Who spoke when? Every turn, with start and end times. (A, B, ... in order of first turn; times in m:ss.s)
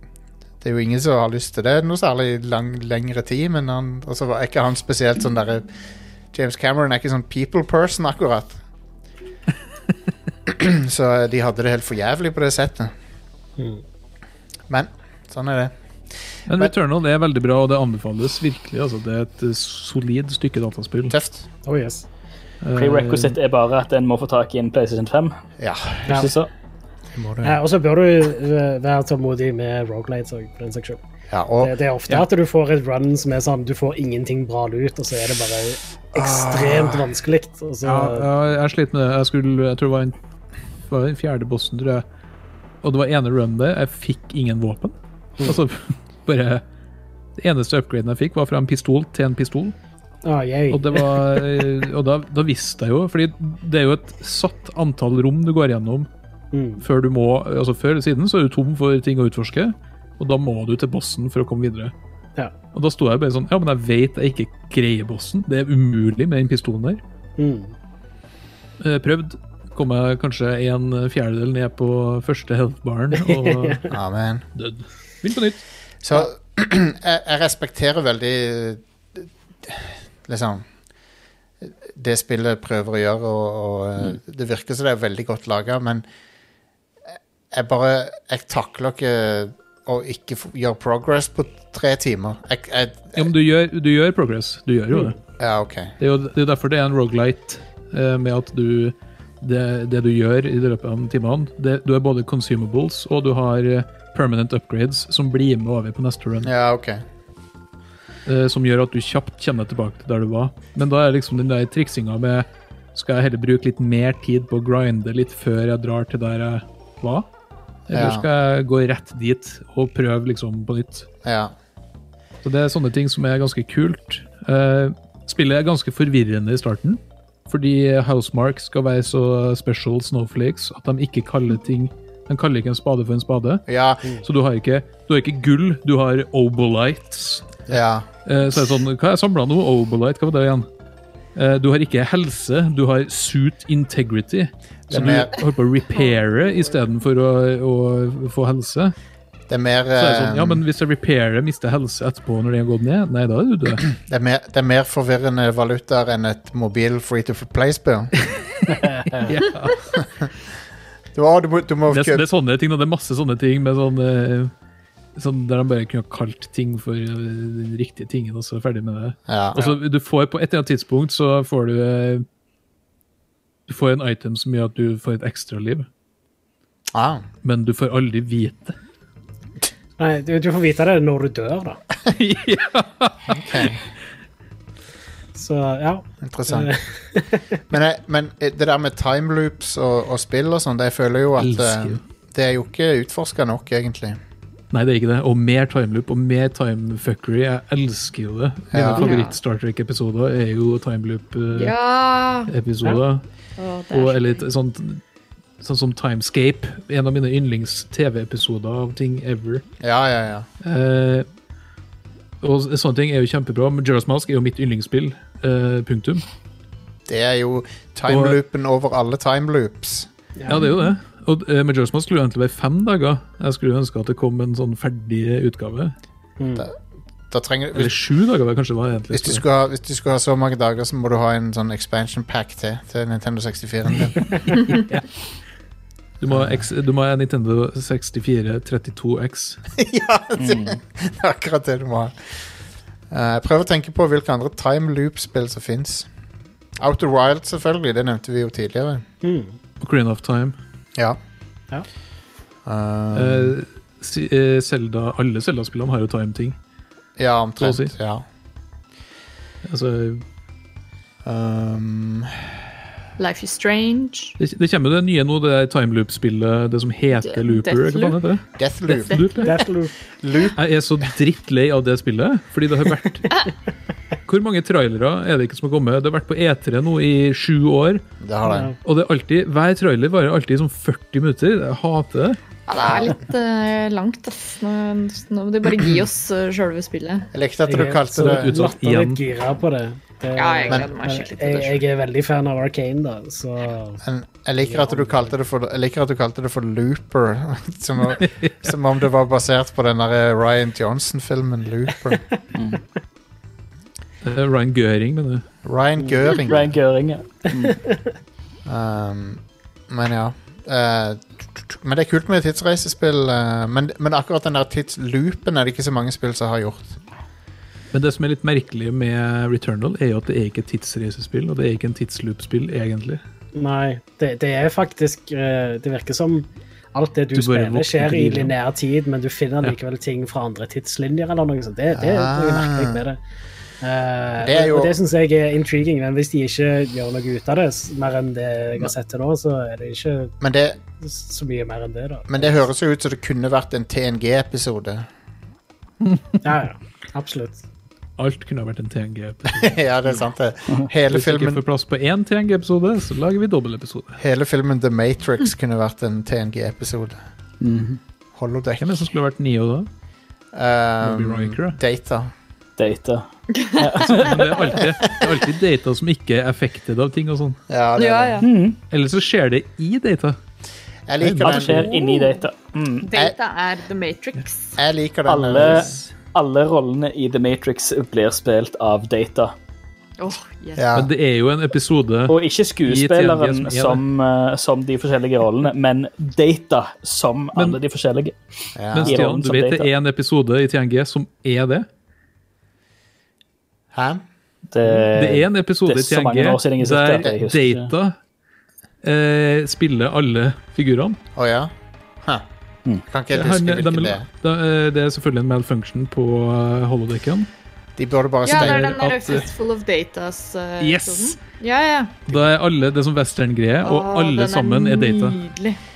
0:00.6-0:05.7 A
0:06.3-0:08.6 A
0:10.5-0:12.9 A
0:13.6-0:13.8 B
0:14.7-0:15.7 A
0:16.5-0:21.2 C
0:21.1-0:21.5 A
0:21.6-0:22.0 B
0:22.6-0:23.4 C
0:22.8-0:25.4 D
0:25.6-0:26.3 A
0:26.1-0:26.5 D
0:27.4-0:31.0 B
0:31.3-0:31.7 A
0:31.6-0:38.3 B
0:36.1-0:37.1 A
0:37.8-0:40.2 C
0:40.9-0:42.0 C
0:42.8-0:46.6 C
0:47.4-0:49.8 C
0:50.2-0:51.4 B
0:50.7-0:56.1 C
0:56.5-0:56.8 B
0:56.8-1:01.9 C
1:02.7-1:07.0 C
1:07.4-1:07.7 B
1:08.8-1:13.9 C
1:13.1-1:13.8 B
1:13.9-1:14.5 A
1:14.6-1:15.6 C
1:16.0-1:20.6 A
1:21.6-1:26.0 A
1:27.5-1:33.3 A
1:33.2-1:35.2 C
1:35.4-1:35.9 A
1:36.0-1:46.5 C
1:46.4-1:47.0 A
1:48.3-1:57.3 C
1:57.9-2:01.1 C
1:57.9-1:58.3 A
2:01.2-2:01.5 A
2:02.4-2:13.6 C
2:13.7-2:14.0 A
2:14.2-2:17.6 C
2:17.7-2:18.1 A
2:18.3-2:20.7 C
2:21.4-2:29.0 C
2:24.9-2:25.4 A
2:29.5-2:30.6 A
2:30.0-2:33.9 C
2:33.9-2:38.1 A
2:38.8-2:39.2 B
2:39.3-2:39.8 C
2:40.0-2:40.3 A
2:41.2-2:42.3 A
2:41.9-2:44.5 C
2:45.2-2:52.2 C
2:49.3-2:49.6 A
2:53.7-2:55.9 C
2:56.9-2:57.2 A
2:57.4-2:58.8 C
3:00.0-3:01.8 B
3:02.1-3:03.8 C
3:03.3-3:03.8 A
3:05.4-3:07.5 B
3:06.2-3:06.7 A
3:07.7-3:14.2 A
3:11.4-3:12.0 C
3:14.7-3:21.8 C
3:18.7-3:19.2 A
3:19.0-3:19.4 E
3:21.5-3:22.5 E
3:22.5-3:23.2 C
3:23.6-3:24.5 E
3:23.9-3:25.0 C
3:25.6-3:29.6 C
3:29.8-3:30.5 A
3:30.6-3:31.3 C
3:32.4-3:36.2 C
3:37.1-3:40.1 A
3:38.1-3:38.4 C
3:40.4-3:40.6 B
3:40.5-3:46.0 C
3:46.4-3:46.7 B
3:47.3-3:48.0 A
3:47.7-3:49.4 C
3:49.1-3:54.6 A
3:54.7-3:55.0 C
3:56.2-3:59.6 C
3:56.3-3:56.6 A
3:59.8-4:02.2 A
4:00.4-4:00.8 D
4:03.1-4:06.1 A
4:06.8-4:09.0 A
4:09.2-4:09.6 B
4:09.8-4:10.6 C
4:12.7-4:13.6 A
4:13.1-4:16.6 C
4:17.2-4:18.2 A
4:17.6-4:17.9 C
4:19.6-4:20.2 C
4:21.2-4:22.3 A
4:23.2-4:24.4 E
4:24.4-4:29.5 C
4:27.1-4:28.2 E
4:28.6-4:29.2 A
4:28.9-4:29.5 E
4:29.4-4:30.0 B
4:30.2-4:30.6 A
4:30.6-4:33.3 C
4:34.3-4:38.0 C
4:38.2-4:38.7 A
4:38.4-4:38.8 B
4:38.8-4:42.4 C
4:42.7-4:47.3 E
4:42.8-4:43.1 A
4:47.3-4:48.6 A
4:47.7-4:54.0 B
4:48.1-4:49.2 C
4:50.4-4:51.8 E
4:54.0-5:02.3 A
4:54.6-4:55.4 B
5:04.2-5:05.5 C
5:05.6-5:06.7 A
5:06.0-5:06.3 B
5:06.5-5:07.9 D
5:07.6-5:08.1 B
5:08.7-5:17.0 A
5:17.9-5:23.2 C
5:23.6-5:33.2 B
5:27.3-5:28.5 C
5:31.9-5:33.0 A
5:33.8-5:40.3 B
5:34.4-5:34.9 A
5:40.4-5:40.8 A
5:41.0-5:42.7 B
5:42.3-5:45.1 A
5:46.4-5:47.6 B
5:48.2-5:49.8 C
5:49.5-5:51.6 A
5:51.1-5:54.2 C
5:54.2-5:57.2 A
5:57.6-5:58.0 D
5:58.4-5:58.9 A
5:58.8-5:59.9 C
6:00.5-6:02.3 A
6:01.0-6:01.8 C
6:02.8-6:03.3 D
6:03.5-6:03.9 E
6:03.8-6:04.8 D
6:04.0-6:07.6 C
6:04.8-6:05.3 A
6:07.7-6:08.5 A
6:08.0-6:08.5 E
6:08.4-6:08.8 D
6:08.9-6:10.4 C
6:11.1-6:11.9 A
6:11.2-6:12.1 C
6:11.4-6:13.1 D
6:13.0-6:14.8 E
6:14.8-6:16.0 A
6:15.3-6:19.5 D
6:20.2-6:20.9 E
6:20.8-6:21.1 A
6:21.0-6:24.0 C
6:22.3-6:28.4 D
6:27.6-6:27.8 C
6:28.8-6:29.2 A
6:28.9-6:31.9 C
6:29.0-6:29.9 D
6:33.9-6:34.2 A
6:34.7-6:37.9 D
6:34.9-6:38.2 C
6:39.0-6:41.2 C
6:41.4-6:41.7 A
6:43.0-6:44.3 A
6:43.3-6:47.5 C
6:48.0-6:49.0 A
6:48.4-6:52.3 E
6:48.5-6:49.5 C
6:50.8-6:51.4 C
6:52.3-6:55.4 C
6:53.8-6:55.8 E